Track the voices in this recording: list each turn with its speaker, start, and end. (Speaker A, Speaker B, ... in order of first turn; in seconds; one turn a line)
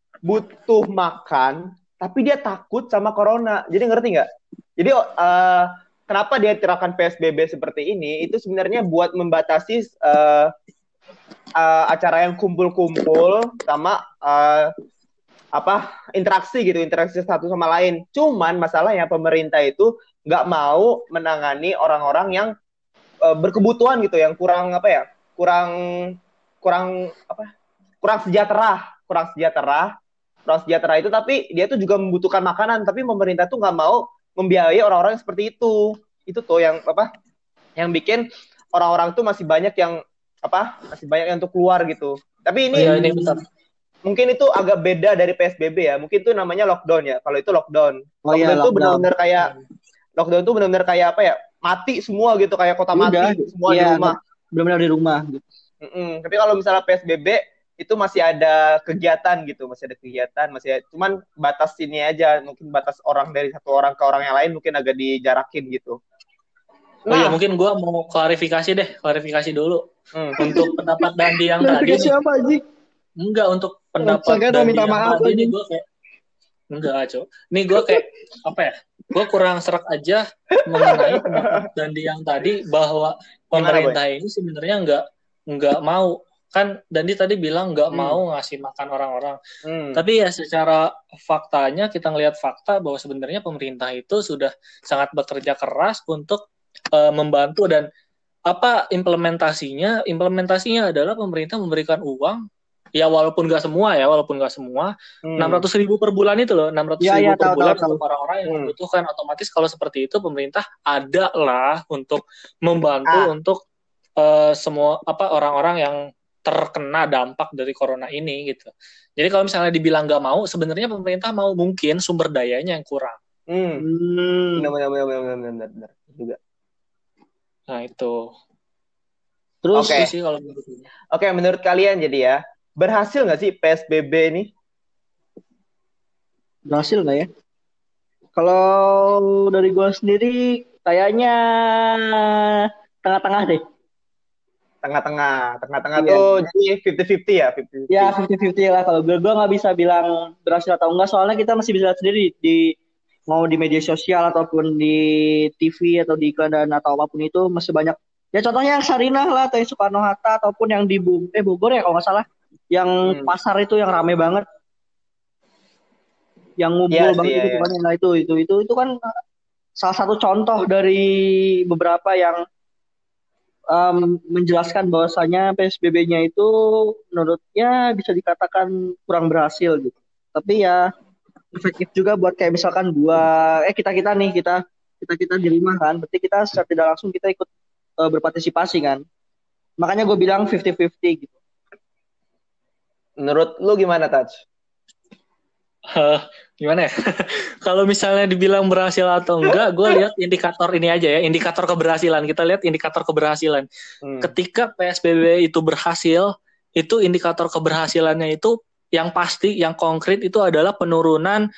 Speaker A: 0.2-4.3
Speaker A: 4.8-10.5
Speaker A: 11.6-14.7
Speaker A: 15.6-22.5
Speaker A: 23.2-27.5
Speaker A: 28.0-29.9
Speaker A: 30.5-37.1
Speaker A: 37.8-43.0
Speaker B: 42.8-43.4
Speaker C: 42.8-43.4
Speaker A: 44.1-49.5
Speaker B: 48.3-49.0
Speaker A: 50.2-54.2
Speaker B: 53.0-55.4
Speaker A: 55.8-66.0
Speaker A: 67.1-67.4
Speaker C: 67.1-69.8
Speaker A: 70.2-70.6
Speaker B: 70.4-70.7
Speaker C: 70.4-72.1
Speaker B: 71.6-72.6
Speaker C: 73.2-75.8
Speaker B: 74.0-75.5
Speaker C: 76.7-89.4
Speaker A: 80.7-81.7
Speaker A: 83.5-84.0
Speaker A: 87.9-88.2
Speaker A: 89.7-90.0
Speaker C: 90.0-97.9
Speaker C: 98.5-102.4
Speaker C: 103.0-113.6
Speaker A: 105.3-105.7
Speaker B: 107.0-108.0
Speaker A: 108.5-108.7
Speaker A: 113.1-113.3
Speaker C: 114.2-123.2
Speaker A: 123.5-123.8
Speaker B: 123.8-124.7
Speaker A: 124.6-126.4
Speaker C: 127.7-128.3
Speaker B: 129.6-130.1
Speaker A: 129.7-130.1
Speaker C: 129.8-130.8
Speaker A: 131.1-134.5
Speaker B: 136.7-137.3
Speaker B: 138.4-143.6
Speaker A: 144.8-148.2
Speaker B: 146.0-146.3
Speaker B: 147.9-152.7
Speaker B: 153.3-164.4
Speaker A: 163.1-163.3
Speaker B: 166.6-168.9
Speaker A: 166.9-167.7
Speaker B: 169.8-172.4
Speaker B: 173.7-180.8
Speaker B: 181.5-187.5
Speaker B: 188.0-189.0
Speaker B: 189.8-191.3
Speaker A: 193.2-194.4
Speaker C: 195.9-203.7
Speaker A: 204.0-204.3
Speaker C: 204.2-211.4